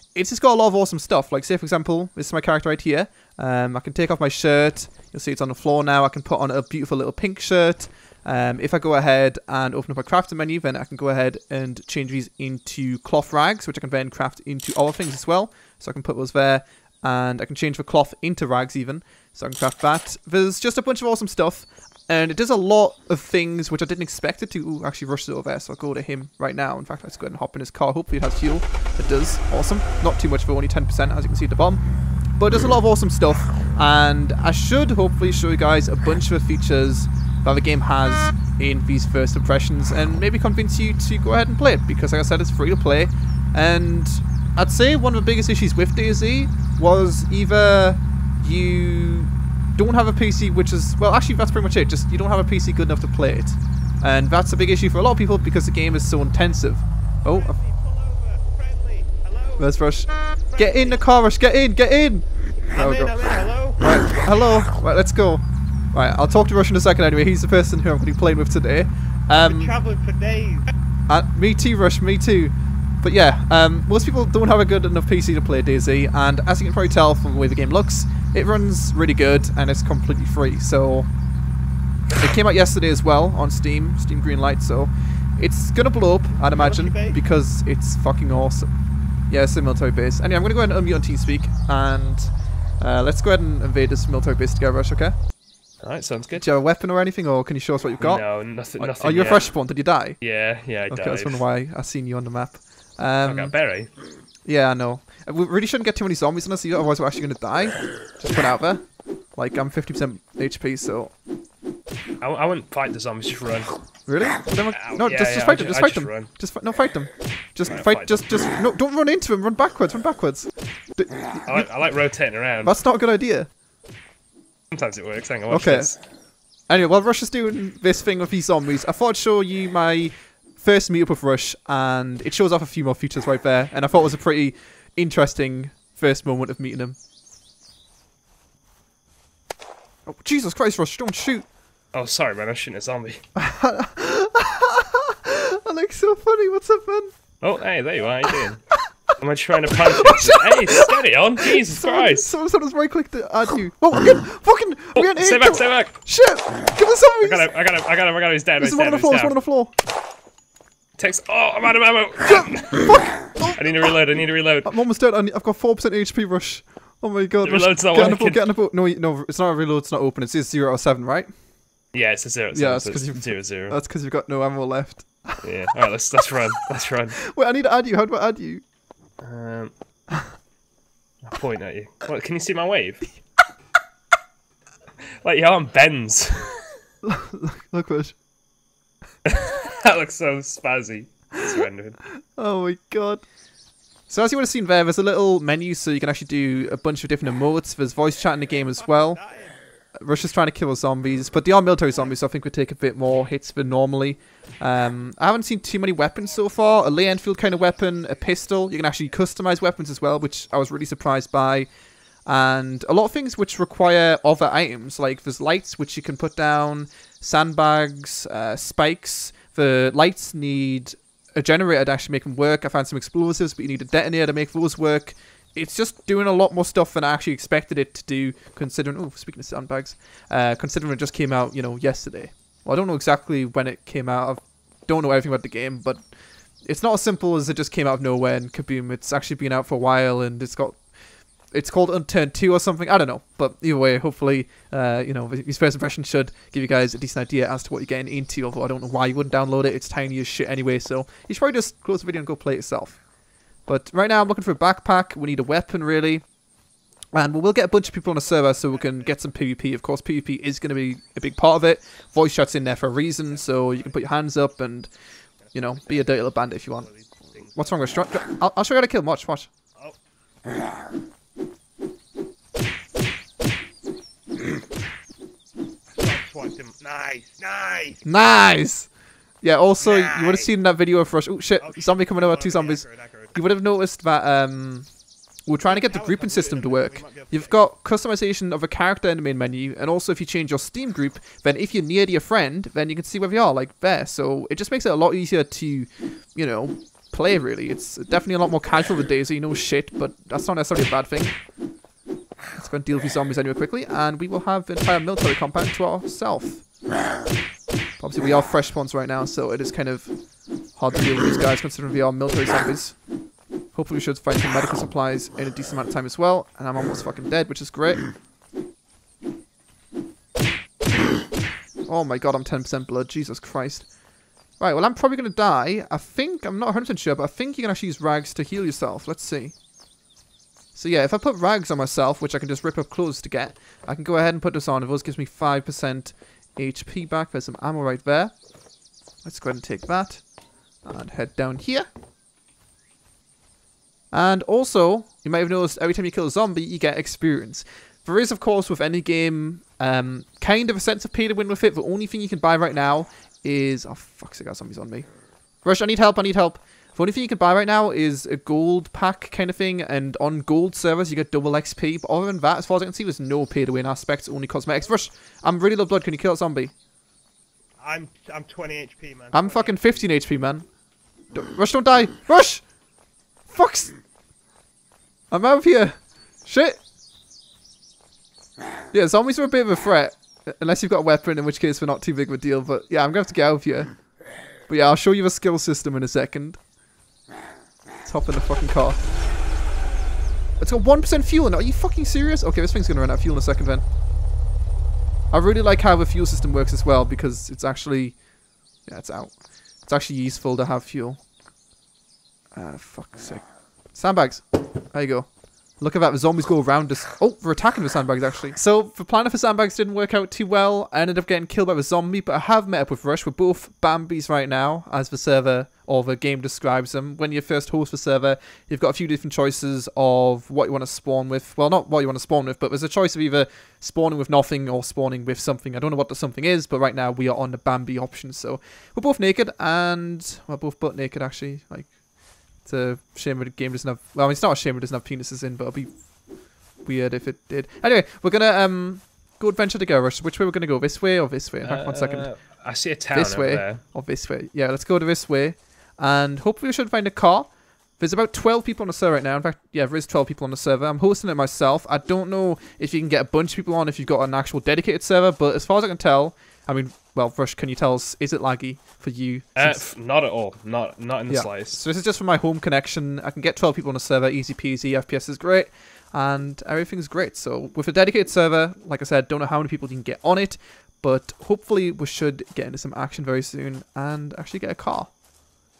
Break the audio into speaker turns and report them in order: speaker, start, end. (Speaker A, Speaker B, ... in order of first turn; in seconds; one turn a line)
Speaker A: 0.1-31.8
Speaker A: 32.4-57.6
Speaker B: 57.3-59.9
Speaker A: 59.6-69.7
Speaker B: 60.5-61.1
Speaker B: 62.7-63.9
Speaker B: 69.3-70.7
Speaker A: 71.1-81.1
Speaker A: 82.1-88.7
Speaker B: 86.5-87.2
Speaker A: 89.3-95.1
Speaker C: 95.8-96.5
Speaker A: 96.3-100.2
Speaker C: 98.0-99.5
Speaker C: 100.2-101.5
Speaker A: 100.9-103.6
Speaker C: 103.2-103.9
Speaker A: 104.5-108.8
Speaker A: 109.3-111.1
Speaker C: 112.2-113.8
Speaker A: 114.1-121.7
Speaker C: 114.7-116.3
Speaker C: 117.7-118.6
Speaker C: 121.5-122.8
Speaker A: 122.6-123.5
Speaker C: 124.7-126.0
Speaker A: 125.5-125.9
Speaker A: 126.7-137.0
Speaker A: 140.1-141.5
Speaker C: 141.9-143.2
Speaker A: 143.4-147.1
Speaker C: 147.4-148.6
Speaker C: 149.2-152.3
Speaker A: 149.8-157.5
Speaker C: 155.0-156.0
Speaker C: 157.2-159.4
Speaker A: 158.6-159.8
Speaker C: 161.0-164.8
Speaker A: 162.2-171.3
Speaker C: 167.4-168.4
Speaker C: 171.9-173.8
Speaker A: 172.5-175.5
Speaker C: 175.4-177.2
Speaker A: 177.2-178.6
Speaker C: 179.2-179.7
Speaker C: 181.2-183.1
Speaker C: 185.2-186.5
Speaker A: 187.0-188.2
Speaker C: 189.2-192.0
Speaker A: 192.4-193.3
Speaker A: 194.1-199.2
Speaker B: 198.6-199.6
Speaker A: 200.0-211.7
Speaker B: 206.5-207.2
Speaker A: 212.3-236.0
Speaker A: 236.6-240.9
Speaker A: 241.5-253.0
Speaker A: 253.7-256.3
Speaker A: 257.1-264.9
Speaker B: 257.8-259.2
Speaker B: 263.3-264.1
Speaker B: 265.5-267.9
Speaker A: 265.5-266.9
Speaker A: 267.6-269.5
Speaker B: 276.0-278.1
Speaker A: 278.1-284.9
Speaker B: 279.8-280.5
Speaker B: 281.6-283.4
Speaker A: 285.5-301.4
Speaker B: 285.6-287.6
Speaker A: 302.6-306.6
Speaker A: 308.0-310.2
Speaker A: 310.7-313.0
Speaker A: 313.7-318.1
Speaker A: 321.9-323.9
Speaker A: 324.6-329.6
Speaker A: 330.8-338.4
Speaker A: 339.2-340.2
Speaker A: 340.8-341.9
Speaker A: 344.1-355.1
Speaker A: 355.6-366.7
Speaker B: 367.8-369.9
Speaker A: 369.3-370.6
Speaker A: 371.3-372.7
Speaker A: 373.5-373.9
Speaker A: 375.3-376.8
Speaker A: 378.9-384.0
Speaker A: 384.7-386.6
Speaker A: 388.0-389.0
Speaker A: 390.6-393.8
Speaker A: 395.3-398.2
Speaker A: 398.8-401.2
Speaker A: 402.5-432.0
Speaker A: 432.5-435.9
Speaker A: 436.8-442.3
Speaker C: 441.6-443.8
Speaker A: 443.1-459.8
Speaker C: 459.6-461.8
Speaker A: 461.3-475.2